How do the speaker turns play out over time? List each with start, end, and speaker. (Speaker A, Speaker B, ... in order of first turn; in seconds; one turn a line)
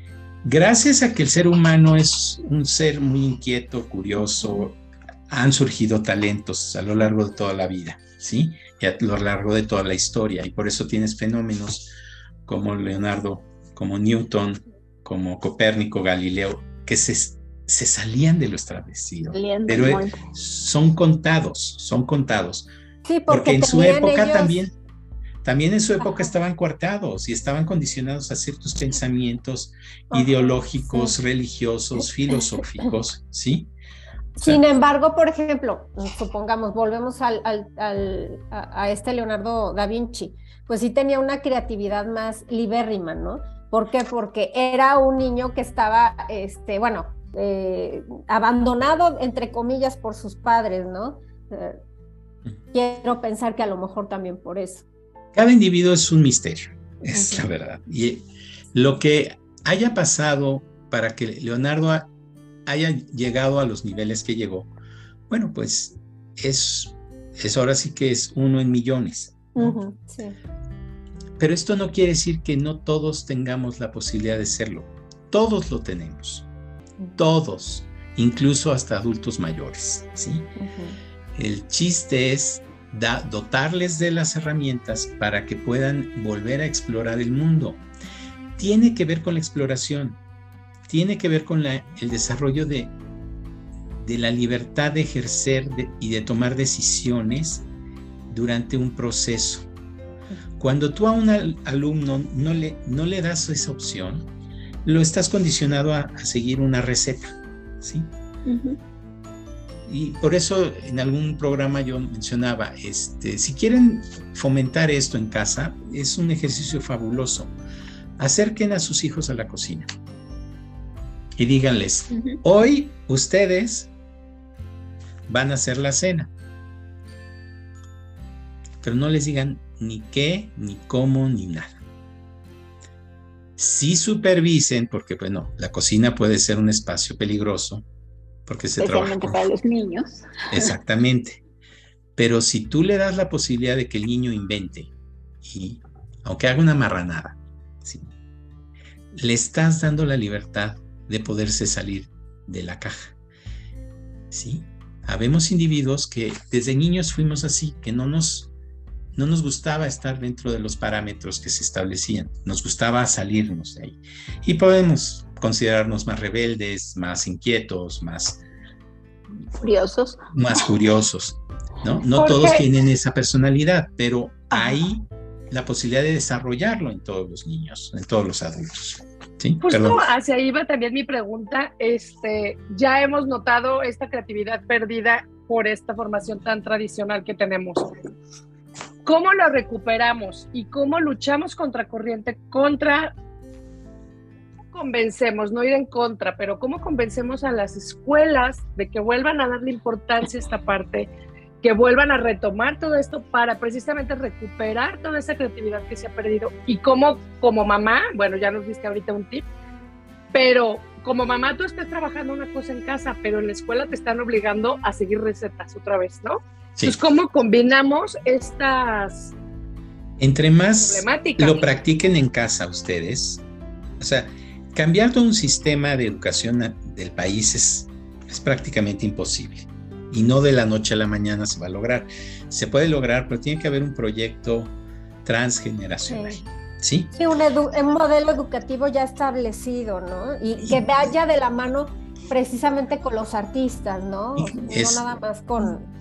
Speaker A: 0.4-11.9
Speaker A: 12.5-22.7
Speaker B: 19.3-20.2
Speaker C: 23.1-24.6
Speaker A: 23.3-24.8
Speaker A: 25.4-33.7
Speaker C: 26.0-26.3
Speaker C: 30.1-31.2
Speaker C: 34.4-51.8
Speaker C: 52.7-54.9
Speaker A: 55.3-62.1
Speaker A: 62.7-64.7
Speaker A: 65.3-69.8
Speaker C: 69.5-70.4
Speaker A: 71.4-76.5
Speaker A: 77.2-80.5
Speaker C: 80.6-81.0
Speaker A: 81.3-87.8
Speaker A: 88.6-90.2
Speaker A: 90.9-92.9
Speaker A: 94.0-97.7
Speaker A: 98.3-99.7
Speaker A: 100.6-104.3
Speaker A: 104.8-108.1
Speaker B: 108.5-108.8
Speaker A: 109.9-117.5
Speaker A: 118.2-119.9
Speaker A: 121.4-123.9
Speaker A: 125.3-126.3
Speaker A: 128.8-131.8
Speaker A: 133.6-137.8
Speaker A: 138.5-139.5
Speaker B: 138.8-140.7
Speaker A: 140.5-141.4
Speaker A: 142.2-144.9
Speaker A: 145.4-148.1
Speaker A: 149.1-153.2
Speaker A: 154.3-158.5
Speaker A: 159.2-168.4
Speaker B: 169.5-170.6
Speaker A: 170.3-180.1
Speaker D: 172.2-172.7
Speaker D: 179.6-187.9
Speaker D: 189.1-193.1
Speaker D: 194.7-201.1
Speaker D: 201.6-209.5
Speaker D: 210.3-219.3
Speaker A: 220.2-223.4
Speaker D: 220.8-221.7
Speaker A: 224.0-237.1
Speaker C: 236.1-236.4
Speaker C: 237.2-245.9
Speaker A: 244.4-245.1